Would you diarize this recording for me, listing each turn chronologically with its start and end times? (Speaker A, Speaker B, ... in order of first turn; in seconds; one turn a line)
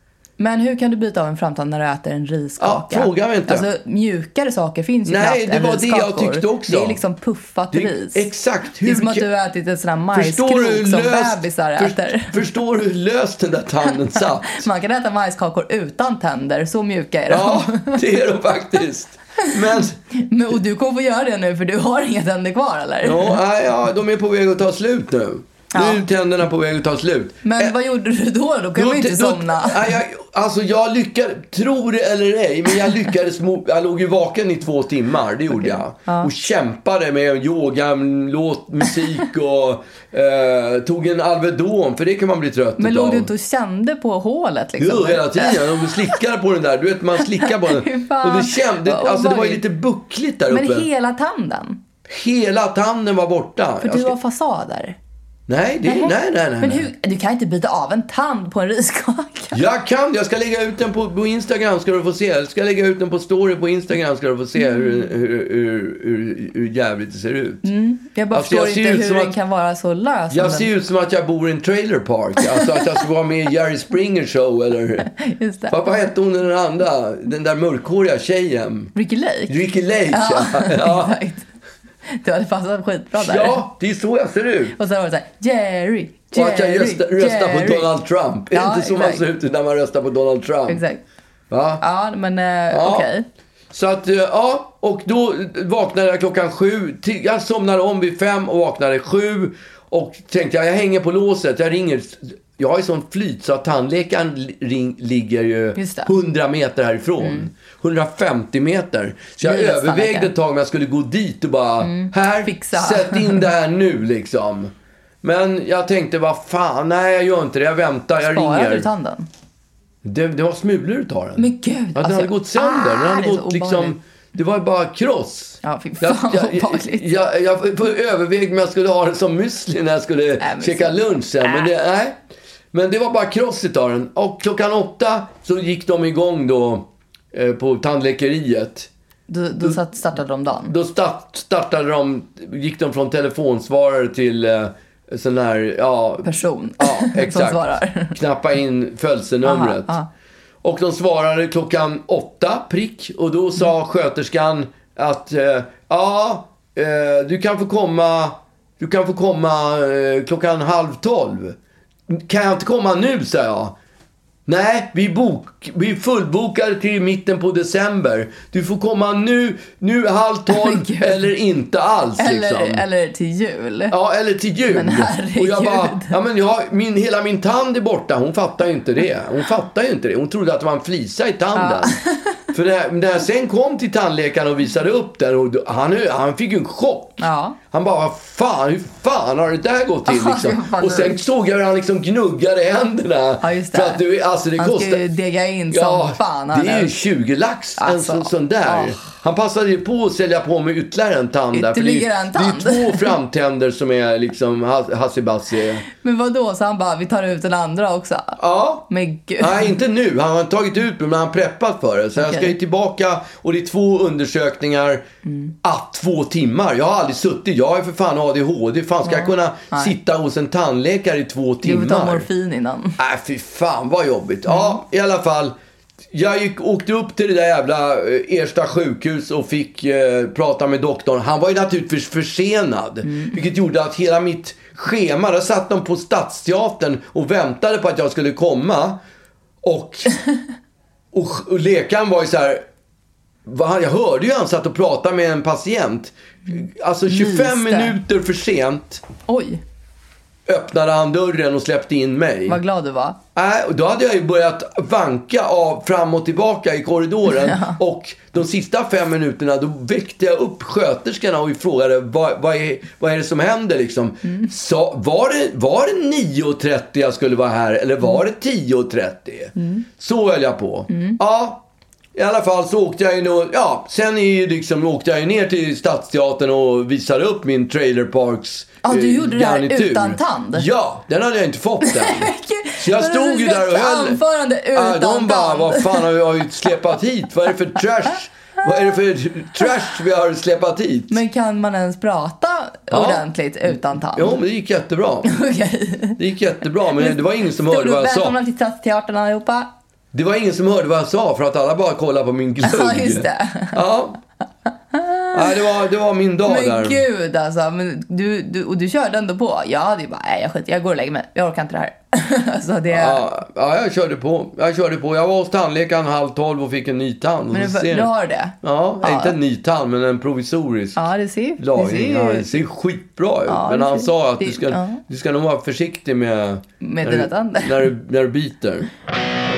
Speaker A: 0.4-8.3
Speaker B: 2.6-3.6
Speaker B: 5.0-7.0
Speaker B: 7.7-9.2
Speaker A: 8.8-12.4
Speaker B: 10.1-14.6
Speaker A: 14.6-18.0
Speaker B: 17.3-20.0
Speaker A: 20.1-23.4
Speaker B: 23.0-27.7
Speaker A: 25.7-26.1
Speaker A: 27.4-29.9
Speaker B: 28.7-43.3
Speaker A: 35.6-36.3
Speaker A: 42.8-46.0
Speaker B: 44.8-50.9
Speaker A: 47.6-49.6
Speaker A: 50.5-51.8
Speaker B: 52.1-54.1
Speaker A: 53.8-55.0
Speaker B: 55.5-56.9
Speaker A: 55.9-59.6
Speaker B: 59.5-67.7
Speaker A: 67.6-70.7
Speaker B: 68.3-69.3
Speaker B: 70.3-75.1
Speaker A: 75.2-75.8
Speaker B: 75.7-78.9
Speaker A: 78.9-79.5
Speaker B: 79.5-81.1
Speaker A: 80.1-81.5
Speaker A: 82.1-83.6
Speaker B: 83.1-84.8
Speaker A: 84.7-87.9
Speaker B: 86.3-90.8
Speaker A: 88.5-89.2
Speaker A: 90.7-91.0
Speaker B: 91.5-91.8
Speaker A: 91.8-93.2
Speaker B: 92.7-93.1
Speaker B: 93.7-114.7
Speaker A: 105.8-106.1
Speaker A: 107.2-107.5
Speaker A: 109.4-110.3
Speaker A: 111.8-113.4
Speaker B: 115.2-118.9
Speaker A: 118.2-119.3
Speaker B: 120.0-132.2
Speaker A: 121.4-124.0
Speaker A: 125.6-127.0
Speaker A: 130.4-131.7
Speaker B: 132.7-138.9
Speaker A: 139.3-140.7
Speaker B: 140.7-149.9
Speaker A: 146.2-148.2
Speaker A: 149.4-150.1
Speaker B: 150.6-161.6
Speaker B: 162.1-163.7
Speaker B: 164.5-172.8
Speaker A: 170.5-171.3
Speaker A: 172.2-173.9
Speaker B: 173.9-182.0
Speaker A: 174.7-176.2
Speaker A: 181.5-182.4
Speaker B: 182.5-195.0
Speaker A: 187.2-187.6
Speaker A: 190.1-191.2
Speaker A: 193.4-194.0
Speaker A: 194.6-196.9
Speaker B: 195.7-205.8
Speaker A: 197.8-199.0
Speaker A: 201.5-203.1
Speaker A: 205.9-208.4
Speaker B: 208.4-208.9
Speaker A: 208.9-209.7
Speaker B: 209.4-215.1
Speaker A: 212.2-212.5
Speaker A: 215.2-215.5
Speaker B: 215.6-222.3
Speaker A: 219.0-219.9
Speaker A: 221.6-223.0
Speaker B: 223.0-225.5
Speaker A: 224.5-224.8
Speaker B: 226.1-239.0
Speaker B: 239.6-240.2
Speaker B: 241.1-242.6
Speaker B: 243.4-249.0
Speaker A: 247.1-247.9
Speaker A: 249.3-249.6
Speaker B: 250.4-252.6
Speaker A: 252.5-253.2
Speaker B: 253.3-284.2
Speaker A: 257.3-257.8
Speaker A: 269.6-269.8
Speaker A: 270.9-271.2
Speaker A: 278.8-280.6
Speaker A: 281.9-286.1
Speaker B: 284.7-291.2
Speaker A: 291.1-294.4
Speaker B: 292.9-295.3
Speaker A: 295.3-296.2
Speaker B: 296.2-298.4
Speaker A: 296.9-299.7
Speaker B: 300.1-304.2
Speaker A: 302.6-303.8
Speaker A: 304.9-305.3
Speaker B: 305.3-307.0
Speaker A: 306.4-313.2
Speaker B: 312.9-318.1
Speaker A: 317.5-319.4
Speaker B: 318.6-321.1
Speaker A: 320.9-322.5
Speaker B: 321.6-328.9
Speaker A: 323.5-325.0
Speaker A: 326.8-327.9